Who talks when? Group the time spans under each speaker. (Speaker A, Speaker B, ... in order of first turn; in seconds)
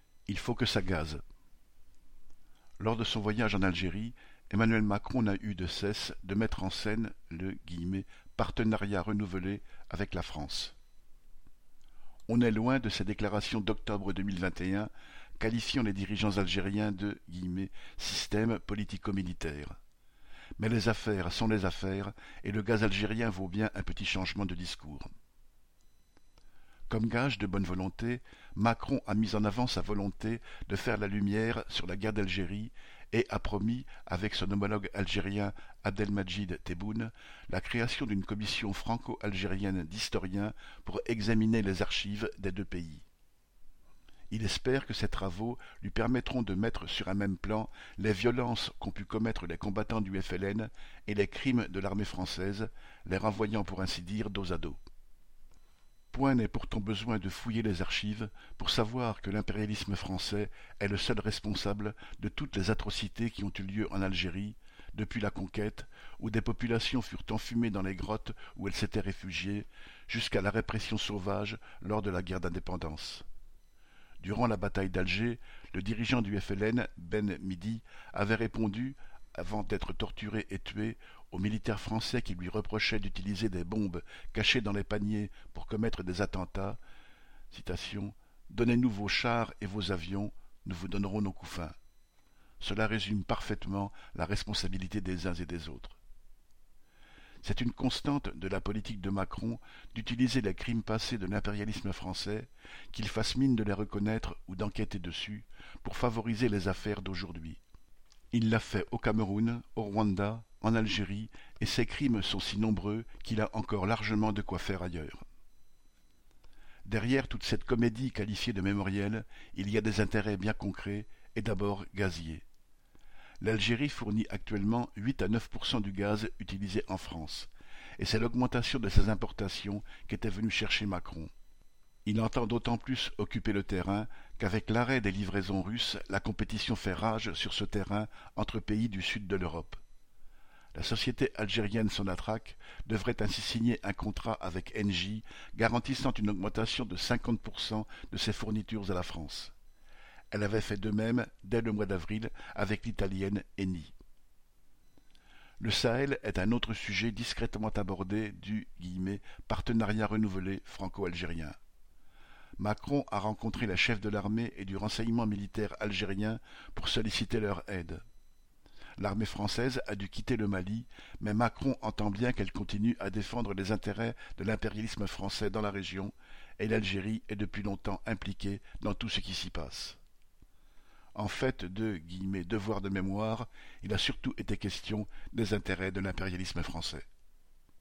Speaker A: 0.3-1.2, 2.8-10.8, 12.3-19.8, 20.6-25.1, 26.9-43.0, 44.3-54.8, 56.1-73.2, 74.2-86.8, 87.5-91.8, 92.6-96.0, 97.4-107.6, 108.3-115.2, 116.9-122.5, 123.4-131.3, 132.1-139.8, 140.7-149.5, 150.3-153.9, 155.6-161.6, 162.6-168.0, 169.0-180.0, 181.2-187.1